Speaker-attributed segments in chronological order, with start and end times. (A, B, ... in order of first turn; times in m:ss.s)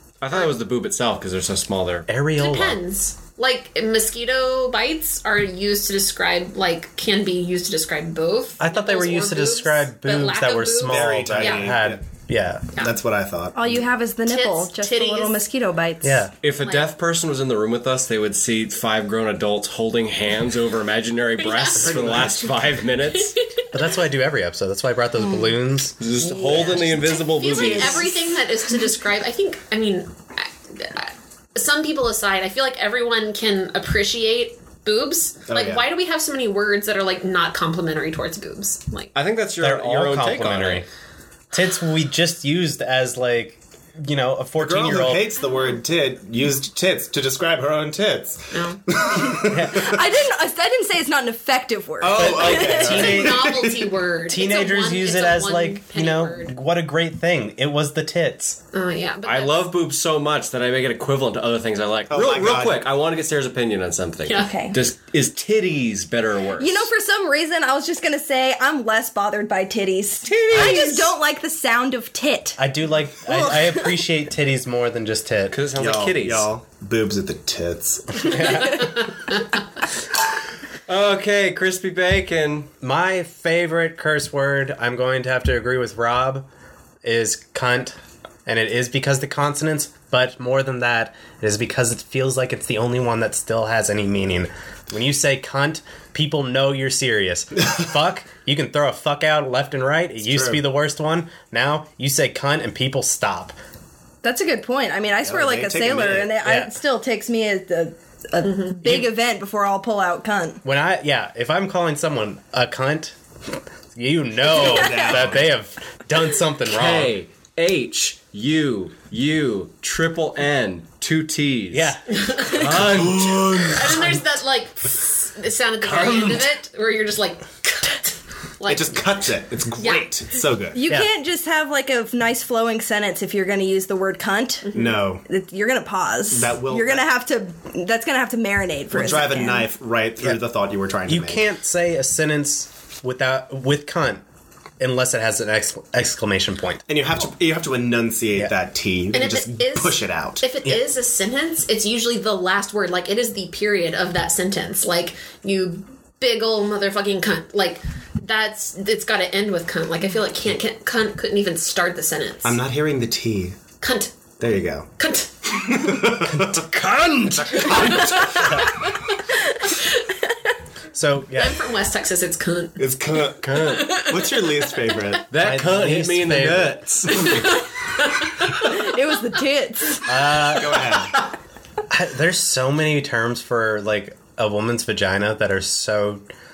0:00.2-0:02.1 A
0:02.1-0:02.8 B
0:02.4-0:11.7 C
0:08.6-0:12.8 B
0:10.8-0:12.0 D
0:12.8-0:13.9 D
0:13.6-0:16.3 E
0:14.3-0:15.4 C
0:16.0-0:16.3 B
0:16.4-0:23.4 A
0:16.6-0:16.9 C
0:21.4-0:21.9 C
0:21.8-0:22.6 D
0:23.7-0:26.0 B
0:25.2-0:25.5 E
0:26.0-0:28.1 A
0:26.4-0:28.3 E
0:26.8-0:39.1 C
0:35.5-0:35.9 D
0:39.2-0:40.9 A
0:39.6-0:40.9 B
0:41.5-0:45.3 B
0:44.6-0:50.0 D
0:48.5-0:48.9 C
0:49.3-0:53.2 E
0:49.5-0:49.9 B
0:52.0-0:53.9 D
0:52.1-0:53.6 B
0:52.8-0:56.5 C
0:54.3-0:58.6 B
0:58.7-0:59.7 C
0:59.2-1:06.9 A
1:02.1-1:02.9 D
1:04.3-1:04.5 C
1:04.4-1:04.8 E
1:06.6-1:12.6 E
1:10.2-1:11.1 A
1:12.6-1:15.6 B
1:13.3-1:14.0 E
1:15.5-1:16.5 A
1:15.8-1:18.8 D
1:18.2-1:19.0 B
1:20.9-1:22.7 A
1:22.8-1:26.5 B
1:27.0-1:43.6 B
1:40.2-1:40.6 D
1:44.2-1:50.6 E
1:45.2-1:46.4 D
1:46.4-1:46.7 B
1:48.4-1:48.8 C
1:48.8-1:49.1 B
1:50.6-1:57.1 B
1:54.5-1:55.4 D
1:54.6-1:55.2 E
1:56.6-2:04.1 A
2:01.7-2:02.8 B
2:02.1-2:02.8 C
2:02.8-2:04.0 D
2:03.7-2:09.2 C
2:05.8-2:06.5 A
2:08.7-2:10.8 D
2:09.8-2:10.1 C
2:10.7-2:19.7 E
2:14.7-2:15.0 C
2:14.7-2:15.2 D
2:16.3-2:17.1 D
2:18.9-2:21.4 D
2:21.1-2:24.2 B
2:24.8-2:26.8 B
2:26.9-2:30.4 D
2:29.1-2:42.6 C
2:42.4-2:43.6 D
2:43.8-2:44.1 C
2:44.4-2:44.9 D
2:45.0-2:45.7 C
2:45.6-2:46.6 D
2:46.4-2:48.6 A
2:47.6-2:48.6 D
2:47.6-2:49.1 C
2:49.7-2:50.0 C
2:50.9-2:51.6 B
2:51.3-2:52.9 C
2:52.8-2:55.3 D
2:53.4-2:54.0 A
2:53.5-2:55.0 C
2:55.3-2:57.4 A
2:55.4-2:56.8 B
2:56.4-2:57.4 D
2:57.1-2:58.5 C
2:58.6-3:00.2 E
3:00.0-3:01.0 B
3:00.4-3:01.3 D
3:01.9-3:06.2 B